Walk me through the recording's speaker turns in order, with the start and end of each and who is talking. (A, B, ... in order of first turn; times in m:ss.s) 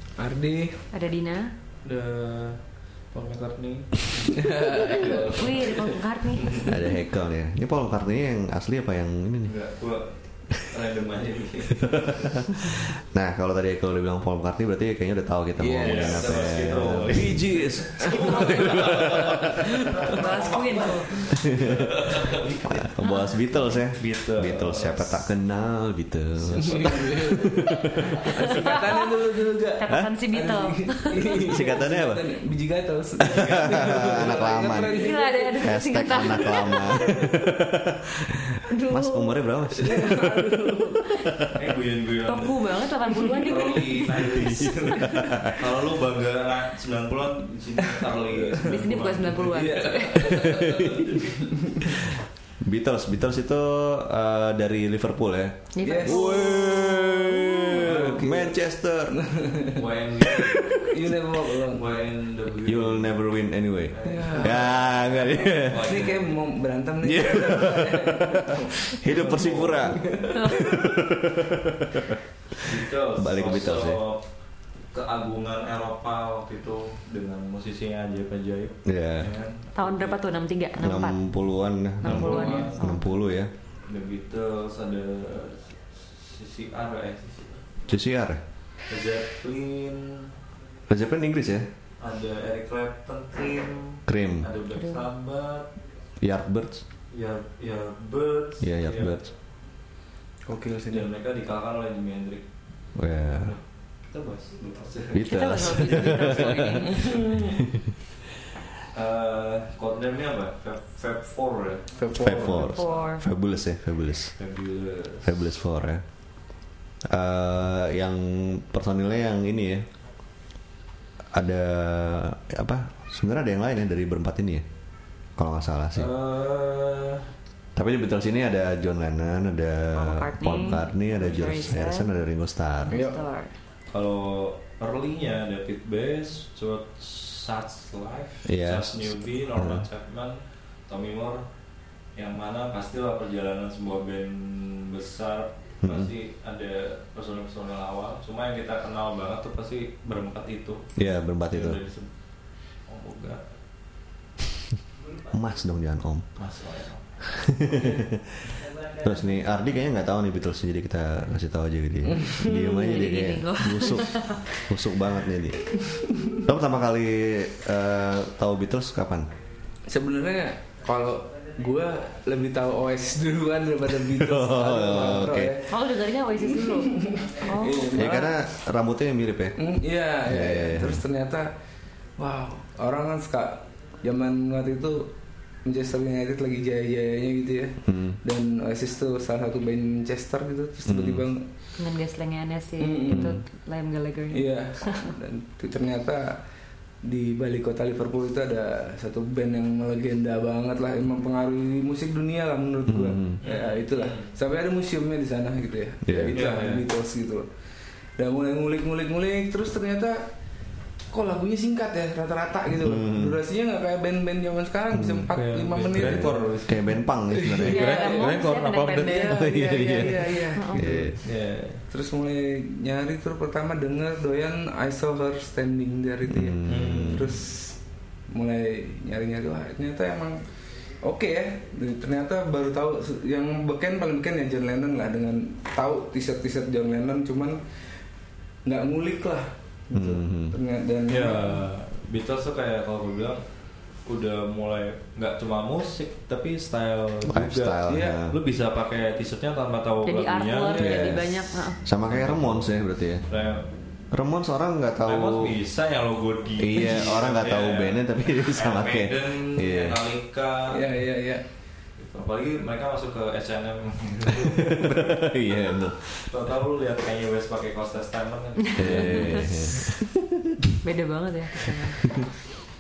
0:00.2-0:00.8 A
0:00.9-0:01.5 B
0:01.8-0:06.7 C
0:04.3-0:06.0 A
0:05.0-0:06.8 B
0:06.6-0:09.5 D
0:09.4-0:12.8 C
0:12.1-0:19.7 D
0:15.6-0:17.2 A
0:15.8-0:22.9 C
0:18.0-0:18.5 A
0:20.0-0:21.3 B
0:21.3-0:28.2 D
0:23.0-0:23.6 B
0:24.0-0:25.3 C
0:26.5-0:28.3 C
0:26.7-0:27.5 A
0:28.0-0:37.5 A
0:28.5-0:31.6 B
0:31.3-0:32.2 D
0:33.2-0:35.0 D
0:33.3-0:34.2 C
0:34.7-0:37.2 B
0:35.6-0:40.7 D
0:38.7-0:39.4 B
0:39.7-0:41.3 A
0:41.6-0:42.7 C
0:42.3-0:44.9 B
0:43.4-0:51.5 C
0:44.9-0:45.6 D
0:47.8-0:52.1 A
0:48.6-0:50.4 B
0:50.4-0:51.1 D
0:51.9-0:59.2 D
0:55.7-0:58.1 B
0:55.8-0:56.4 A
0:57.7-0:58.6 A
0:59.1-1:01.8 A
0:59.7-1:00.9 C
1:01.6-1:03.2 C
1:02.6-1:06.1 D
1:03.9-1:06.3 C
1:04.0-1:04.8 A
1:05.4-1:11.0 A
1:07.0-1:12.2 D
1:09.1-1:10.0 C
1:12.6-1:14.2 C
1:13.1-1:14.0 D
1:14.9-1:20.2 C
1:18.8-1:19.3 D
1:19.8-1:21.2 B
1:20.8-1:23.5 D
1:22.0-1:23.1 B
1:22.0-1:22.8 C
1:23.9-1:27.6 C
1:27.9-1:28.4 D
1:28.9-1:30.3 C
1:30.9-1:31.7 D
1:32.0-1:35.7 C
1:34.1-1:34.5 D
1:36.2-1:36.8 D
1:37.1-1:39.2 C
1:38.6-1:39.3 D
1:40.5-1:41.1 A
1:40.9-1:42.4 C
1:43.0-1:43.6 D
1:43.4-1:46.8 C
1:45.1-1:47.9 D
1:45.2-1:47.6 B
1:48.9-1:53.1 C
1:52.0-1:52.6 A
1:52.1-1:54.4 D
1:52.4-1:53.2 B
1:54.4-1:55.4 C
1:55.2-1:56.0 D
1:57.0-1:59.9 D
2:01.3-2:04.6 D
2:05.4-2:06.1 D
2:06.0-2:07.3 C
2:07.8-2:13.0 D
2:09.9-2:12.1 B
2:12.8-2:13.5 B
2:12.9-2:13.2 A
2:13.9-2:21.4 C
2:18.4-2:19.8 D
2:22.2-2:30.8 C
2:25.8-2:26.1 D
2:31.0-2:31.8 D
2:31.5-2:32.1 C
2:32.9-2:33.5 C
2:35.3-2:36.3 D
2:36.4-2:38.0 C
2:37.3-2:45.7 D
2:42.1-2:42.5 A
2:42.4-2:44.5 B
2:45.8-2:46.4 A
2:46.3-2:49.3 D
2:49.9-2:55.8 A
2:53.9-2:55.6 D
2:55.7-2:58.3 B
2:56.4-2:58.3 A
2:57.9-2:59.6 D
2:59.6-3:01.5 A
3:00.2-3:01.0 D
3:02.2-3:05.1 A
3:05.6-3:11.4 A
3:07.8-3:08.2 D
3:10.9-3:11.3 D
3:11.8-3:15.2 B
3:12.8-3:13.4 A
3:13.1-3:13.4 D
3:14.3-3:16.4 A
3:17.0-3:27.5 A
3:22.9-3:23.4 D
3:23.4-3:24.3 C
3:26.0-3:26.4 D
3:26.3-3:26.8 C
3:28.2-3:30.2 A
3:31.1-3:36.6 A
3:32.8-3:33.4 D
3:34.9-3:35.3 D
3:35.3-3:37.0 C
3:35.8-3:38.1 D
3:37.3-3:38.4 A
3:37.6-3:40.8 B
3:37.6-3:39.4 C
3:39.0-3:41.2 A
3:39.3-3:41.2 D
3:41.2-3:41.8 C
3:41.9-3:47.8 A
3:46.3-3:47.4 D
3:46.7-3:47.4 C
3:48.3-3:50.4 A
3:51.0-3:57.6 A
3:58.6-4:01.6 A
3:59.9-4:00.6 D
4:01.1-4:03.4 C
4:04.1-4:11.1 C
4:07.2-4:08.4 D
4:07.9-4:08.2 A
4:10.0-4:11.8 B
4:10.7-4:11.1 A
4:10.8-4:13.2 D
4:12.0-4:12.8 C
4:13.3-4:13.7 C
4:14.1-4:15.5 D
4:15.0-4:20.8 C
4:16.6-4:20.0 D
4:20.7-4:21.4 A
4:22.0-4:25.4 C
4:24.4-4:26.4 D
4:26.3-4:29.9 C
4:28.7-4:29.9 B
4:28.8-4:30.6 D
4:30.8-4:32.2 B